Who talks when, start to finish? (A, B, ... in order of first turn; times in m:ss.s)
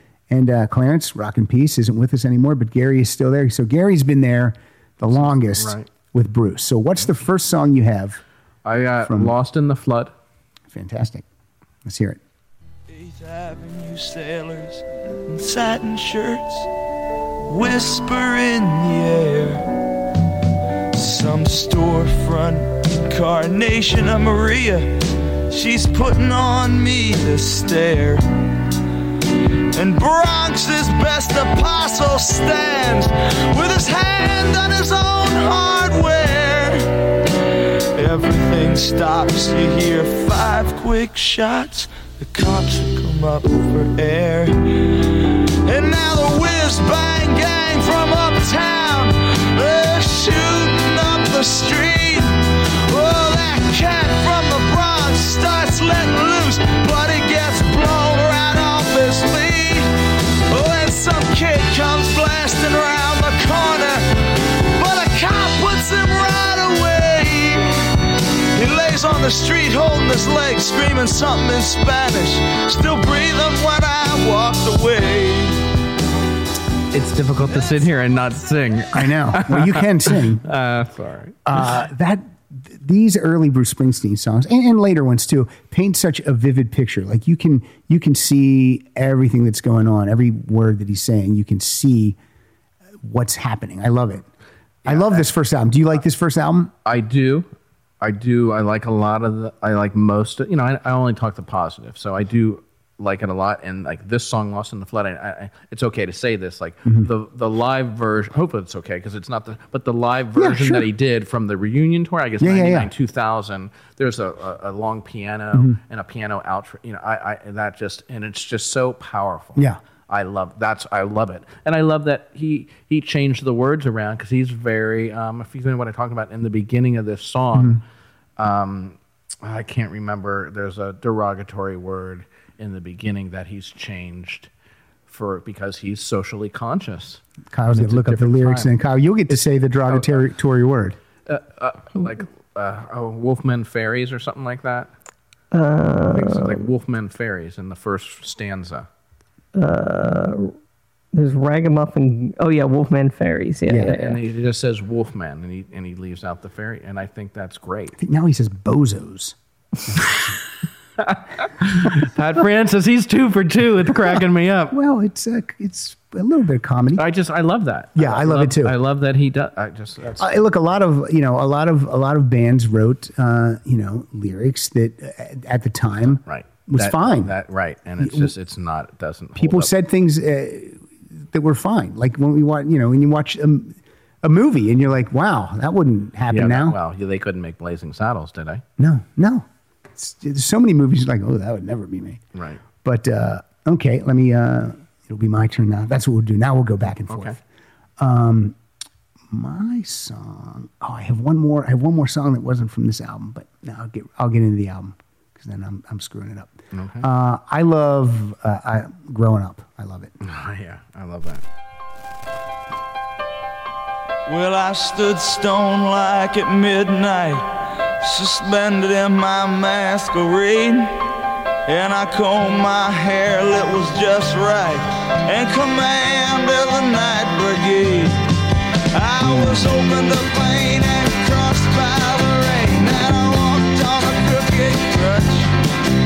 0:00.3-0:08.2 A
0:05.1-0:05.9 B
0:08.6-0:10.1 B
0:09.0-0:09.3 A
0:10.7-0:11.2 A
0:11.8-0:12.2 A
0:12.9-0:16.7 C
0:17.5-0:19.6 C
0:20.9-0:28.2 C
0:29.7-0:36.9 C
0:38.0-0:59.9 C
1:00.5-1:04.1 C
1:04.8-1:07.7 C
1:08.6-1:15.6 C
1:16.9-1:21.4 B
1:18.9-1:20.4 A
1:21.5-1:32.2 A
1:33.0-1:34.3 A
1:34.9-1:35.3 B
1:34.9-1:36.7 A
1:36.8-1:37.5 B
1:38.0-2:07.8 B
1:50.4-1:50.9 A
1:52.4-1:52.9 A
2:08.4-2:14.5 B
2:15.1-2:18.7 B
2:17.5-2:21.0 A
2:19.9-2:20.2 B
2:21.3-2:24.9 B
2:25.5-2:26.6 D
2:26.1-2:28.9 B
2:29.6-2:30.5 D
2:31.1-2:34.2 D
2:33.8-2:38.0 B
2:38.0-2:40.3 A
2:41.0-2:44.8 B
2:44.7-2:47.0 A
2:47.0-2:50.3 B
2:48.0-2:48.8 A
2:50.2-2:57.3 A
2:56.2-2:59.7 B
2:58.0-2:58.3 A
2:59.4-3:06.8 A
3:06.3-3:08.6 B
3:08.8-3:12.2 A
3:12.3-3:12.6 B
3:12.8-3:17.4 A
3:17.1-3:17.4 B
3:18.0-3:18.6 A
3:19.3-3:30.1 A
3:26.7-3:27.1 B
3:30.2-3:31.4 B
3:34.3-3:37.5 C
3:38.0-3:41.0 C
3:41.7-3:48.2 C
3:48.9-3:55.5 C